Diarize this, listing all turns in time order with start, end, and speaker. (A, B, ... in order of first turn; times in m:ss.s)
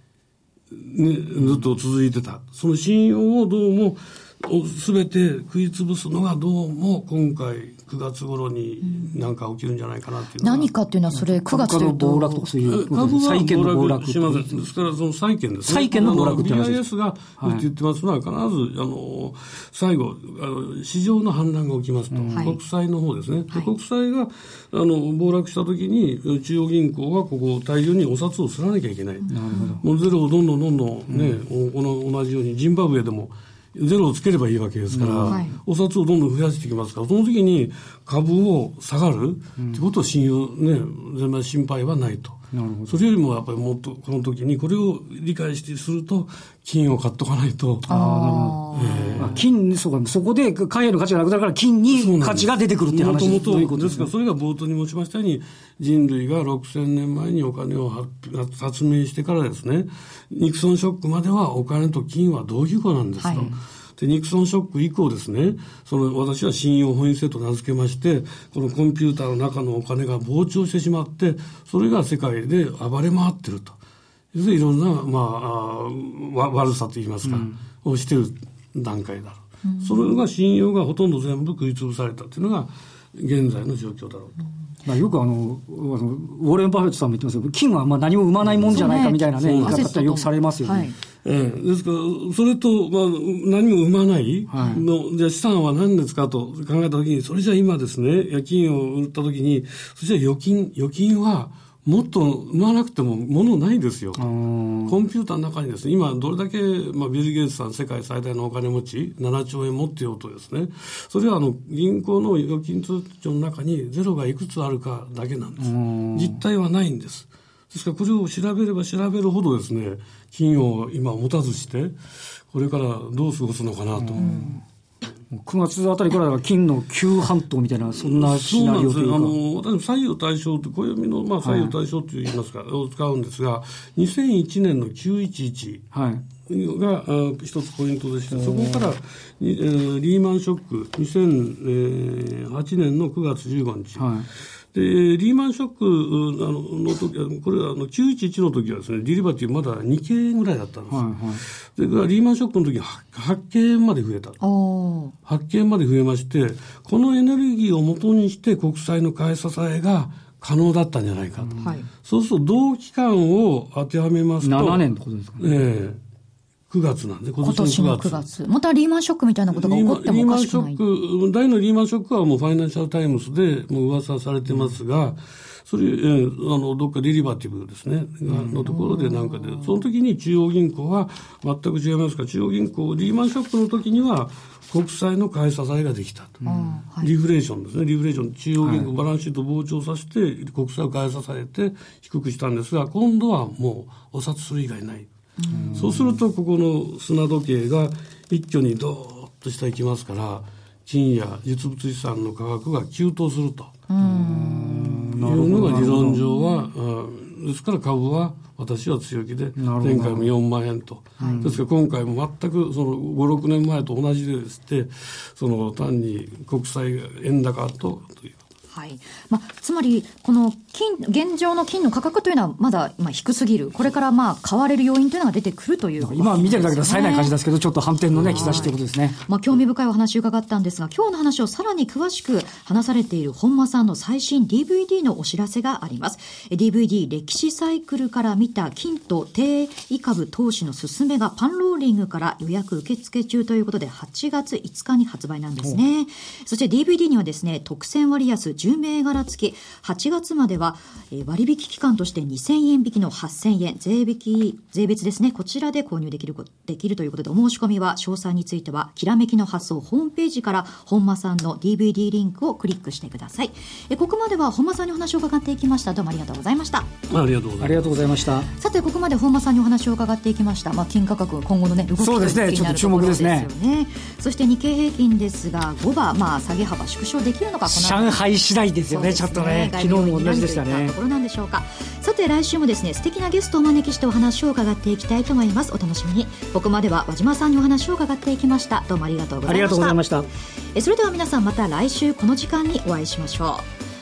0:00.7-0:10.7 A
0:08.8-0:09.2 B
0:10.4-0:12.5 B
0:11.1-0:14.6 C
0:12.6-0:47.9 A
0:15.6-0:16.8 C
0:17.4-0:17.6 C
0:22.1-0:22.5 C
0:29.3-0:29.8 B
0:29.3-0:29.8 C
0:31.1-0:31.4 C
0:34.9-0:35.4 C
0:35.3-0:35.6 B
0:42.5-0:43.0 C
0:47.9-0:54.1 C
0:47.9-0:49.4 B
0:48.7-0:49.4 A
0:51.9-1:13.8 A
1:03.2-1:03.5 B
1:03.3-1:03.6 C
1:14.3-1:24.4 A
1:17.2-1:17.6 C
1:19.6-1:20.2 B
1:24.8-1:30.9 C
1:28.5-1:30.0 A
1:28.7-1:30.9 B
1:31.2-1:44.3 A
1:34.5-1:34.8 C
1:44.2-1:44.9 C
1:44.9-2:02.0 A
1:55.6-1:56.4 C
2:02.5-2:04.5 A
2:04.0-2:04.5 C
2:04.2-2:04.6 B
2:05.3-2:09.3 C
2:07.9-2:15.9 A
2:11.4-2:11.7 C
2:15.9-2:16.2 C
2:16.4-2:24.1 A
2:24.0-2:24.3 C
2:24.7-2:34.4 A
2:30.9-2:31.4 C
2:34.4-2:35.1 B
2:35.2-2:44.9 A
2:41.4-2:41.8 C
2:41.6-2:41.9 B
2:44.4-2:45.5 C
2:45.4-2:46.0 A
2:46.7-2:48.2 A
2:47.4-2:50.8 B
2:49.5-3:06.4 A
2:58.3-2:58.6 C
2:58.6-2:59.8 B
3:06.4-3:06.8 C
3:06.4-3:07.1 B
3:07.0-3:15.1 A
3:08.6-3:08.9 C
3:15.4-3:15.9 B
3:15.5-3:16.1 C
3:15.8-3:23.7 A
3:23.9-3:25.2 B
3:24.0-3:26.2 C
3:25.2-3:38.4 A
3:29.6-3:30.3 C
3:31.2-3:31.5 B
3:31.2-3:31.6 C
3:38.7-3:47.3 B
3:46.0-3:49.2 C
3:48.1-3:48.7 A
3:48.3-4:26.9 B
4:27.1-4:28.0 A
4:27.6-4:28.5 C
4:28.6-4:38.2 B
4:32.0-4:33.5 C
4:37.7-4:41.0 C
4:38.9-4:50.0 B
4:49.4-4:50.3 C
4:50.7-4:53.7 B